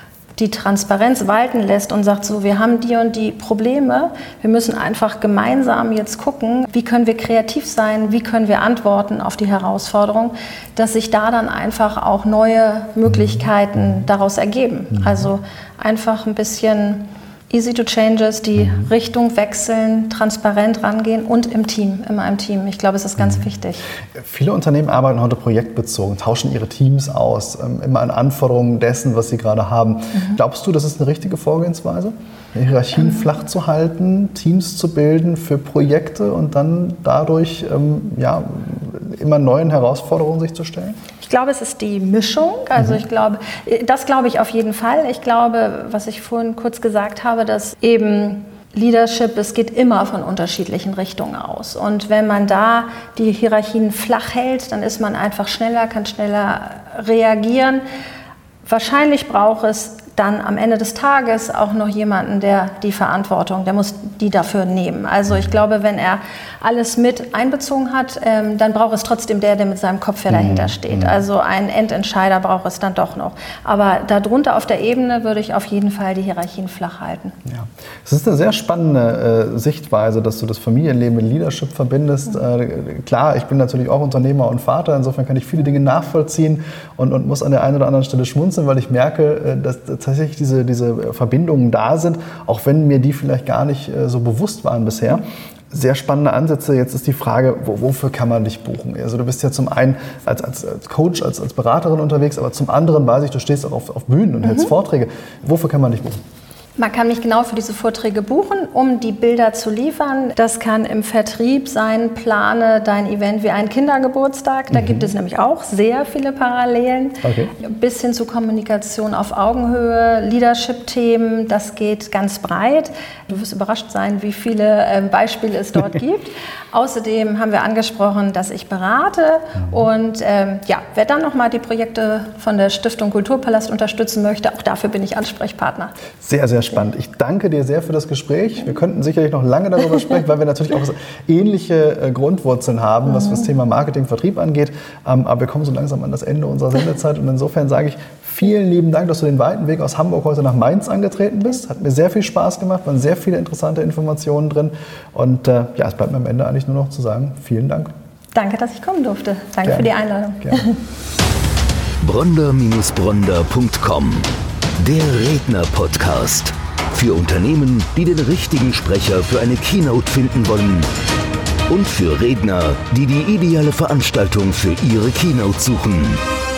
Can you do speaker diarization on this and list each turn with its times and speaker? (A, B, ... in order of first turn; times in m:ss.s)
0:00.4-0:23.8 A
0:24.1-0:41.0 B
0:41.2-0:57.8 A
0:58.6-1:17.4 A
1:10.3-1:11.2 B
1:17.5-1:46.2 B
1:46.8-2:15.9 A
1:54.7-1:55.1 B
1:57.2-1:57.5 B
2:16.2-2:37.9 B
2:38.3-2:40.8 A
2:42.0-2:50.9 C
2:51.7-2:56.2 C